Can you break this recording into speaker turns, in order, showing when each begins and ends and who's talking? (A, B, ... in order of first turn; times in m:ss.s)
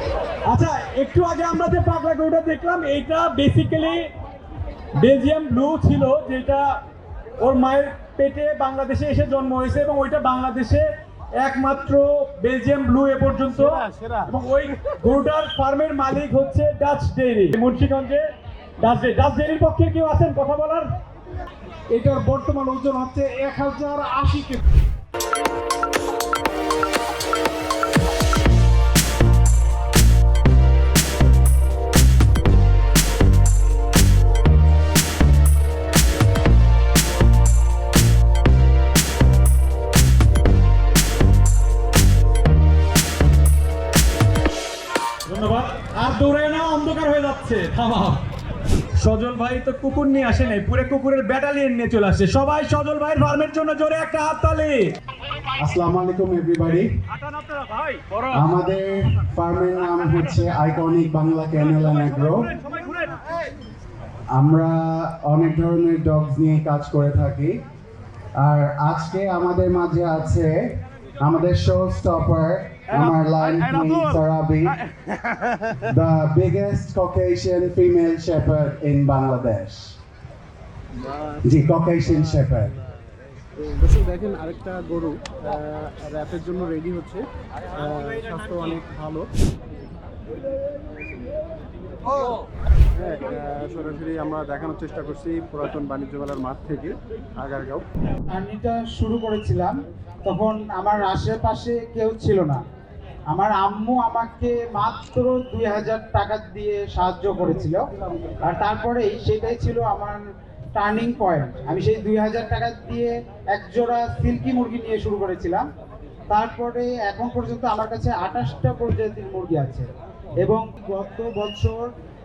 0:00.4-0:04.1 A
0:04.9-0:06.8 A
0:07.4-0:18.2 A
0:13.9-0:14.2 B
0:18.8-0:20.9 A
0:21.9-0:24.6 C
0:45.2-0:48.2 A
0:48.9-0:54.9 A
0:55.6-0:56.9 D
0:57.1-0:58.4 A
0:58.3-1:02.5 D
1:02.2-1:03.2 A
1:04.3-1:07.6 D
1:08.3-1:14.8 D
1:15.8-1:20.0 D
1:21.4-1:22.7 D
1:23.6-1:29.3 B
1:33.0-1:37.8 B
1:38.3-1:42.6 C
1:43.3-1:47.8 C
1:48.4-1:50.2 C
1:50.7-1:55.6 C
1:56.3-1:59.8 C
2:00.4-2:01.8 C